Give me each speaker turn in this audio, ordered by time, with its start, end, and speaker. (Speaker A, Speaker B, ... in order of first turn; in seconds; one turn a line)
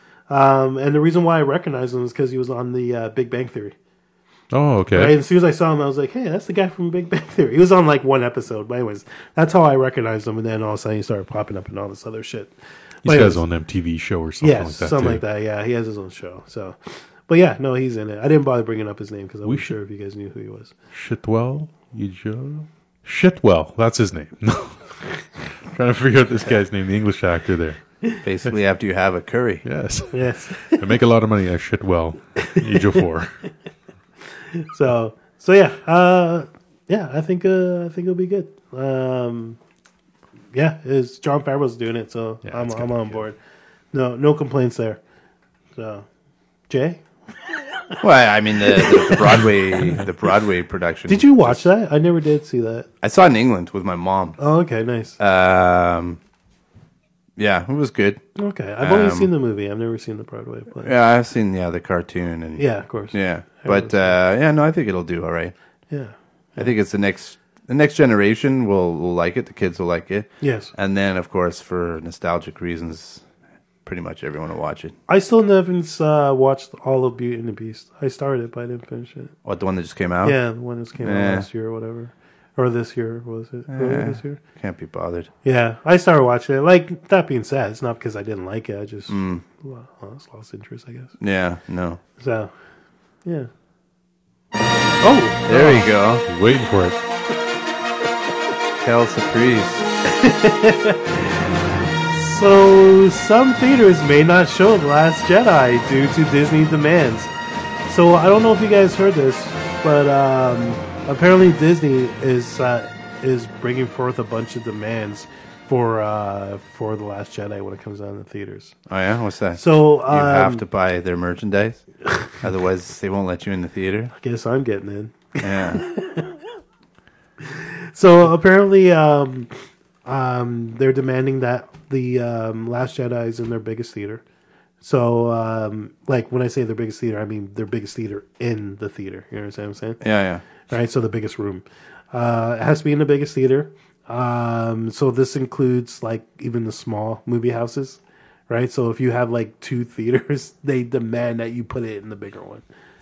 Speaker A: 0.3-3.8
Speaker B: 4.5-5.2
Speaker A: 4.9-12.5
Speaker A: 13.1-13.4
Speaker B: 13.1-15.2
Speaker A: 14.4-20.7
Speaker B: 19.4-19.8
Speaker B: 20.9-24.8
Speaker B: 25.7-27.8
Speaker C: 28.2-29.6
Speaker B: 29.6-33.3
Speaker A: 30.1-30.8
Speaker A: 34.4-39.6
Speaker A: 40.5-43.4
Speaker B: 42.5-43.2
Speaker A: 43.9-45.0
Speaker A: 45.8-46.1
Speaker A: 46.7-47.0
Speaker C: 48.0-51.7
Speaker A: 48.8-49.4
Speaker A: 51.1-52.9
Speaker C: 53.0-54.4
Speaker A: 54.4-55.2
Speaker C: 55.2-56.2
Speaker C: 57.4-58.2
Speaker A: 58.4-60.9
Speaker C: 58.8-59.3
Speaker C: 60.8-65.5
Speaker A: 62.6-64.1
Speaker A: 65.9-66.7
Speaker C: 66.6-73.2
Speaker A: 70.4-70.7
Speaker C: 73.8-75.0
Speaker A: 75.1-79.3
Speaker C: 79.5-80.4
Speaker A: 80.2-84.4
Speaker C: 81.0-81.5
Speaker C: 83.7-85.3
Speaker A: 85.4-91.2
Speaker C: 89.1-89.4
Speaker C: 91.2-92.0
Speaker A: 92.2-92.5
Speaker A: 95.0-95.6
Speaker C: 95.5-96.2
Speaker B: 95.5-97.0
Speaker C: 98.8-99.9
Speaker A: 100.1-101.2
Speaker A: 102.1-107.3
Speaker A: 107.9-118.7
Speaker C: 118.9-121.8
Speaker A: 119.6-120.6
Speaker C: 122.4-124.1
Speaker A: 124.2-126.3
Speaker C: 125.4-125.8
Speaker A: 127.4-129.5
Speaker A: 130.1-134.2
Speaker A: 134.8-140.0
Speaker C: 140.0-140.4
Speaker A: 140.7-152.6